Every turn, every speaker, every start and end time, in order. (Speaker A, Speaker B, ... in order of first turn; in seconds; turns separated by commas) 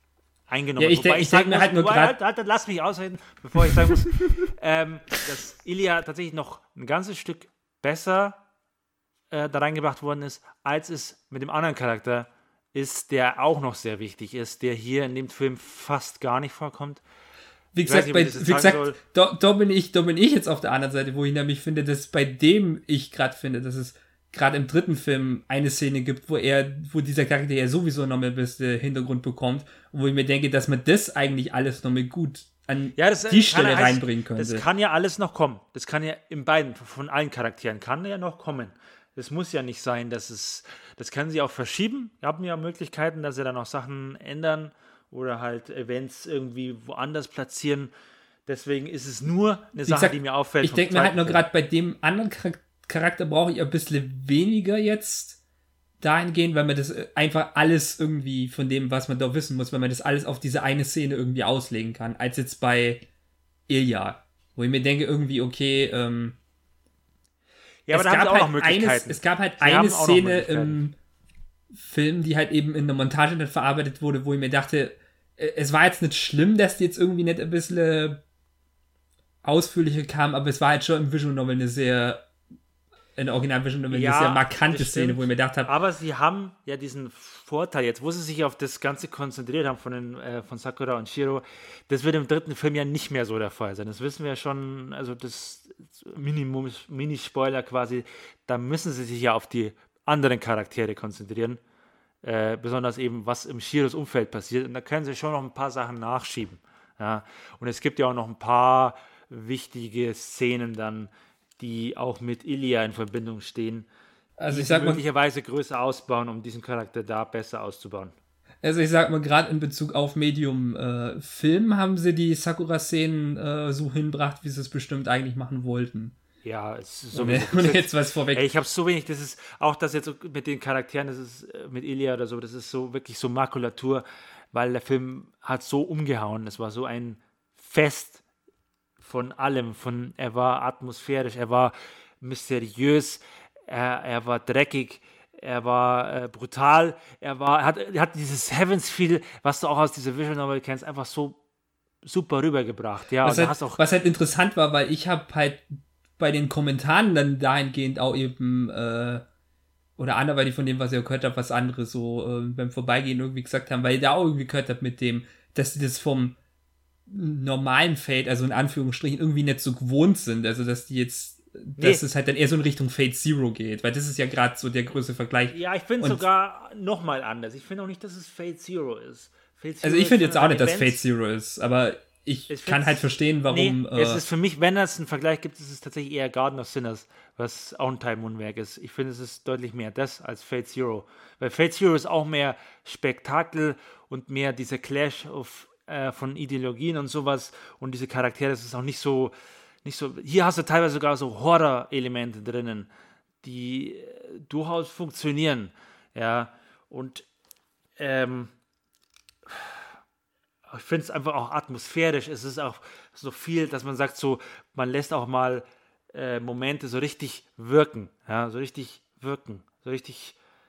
Speaker A: 0.5-8.4, Speaker B: 0.8-2.1, Speaker A: 9.3-17.0, Speaker B: 17.7-34.6, Speaker A: 17.9-19.0, Speaker A: 33.0-47.9, Speaker A: 48.5-51.4, Speaker B: 49.9-55.4, Speaker B: 56.0-63.0, Speaker B: 63.7-66.4, Speaker A: 67.9-70.8, Speaker B: 67.9-71.0, Speaker B: 71.7-78.2, Speaker B: 79.4-82.2, Speaker B: 83.2-85.7, Speaker A: 83.9-101.6, Speaker A: 102.2-113.9, Speaker B: 114.4-115.0, Speaker A: 114.5-118.1, Speaker B: 118.6-126.2, Speaker A: 126.4-138.2, Speaker B: 127.1-128.4, Speaker A: 139.0-151.4, Speaker A: 152.0-153.8, Speaker B: 153.2-155.7, Speaker B: 156.2-159.2, Speaker B: 160.0-166.4, Speaker B: 167.1-176.2, Speaker A: 175.5-181.0, Speaker B: 179.8-184.2, Speaker A: 182.5-202.9, Speaker A: 203.4-207.2, Speaker A: 208.0-208.5, Speaker A: 209.5-209.8, Speaker A: 210.7-220.4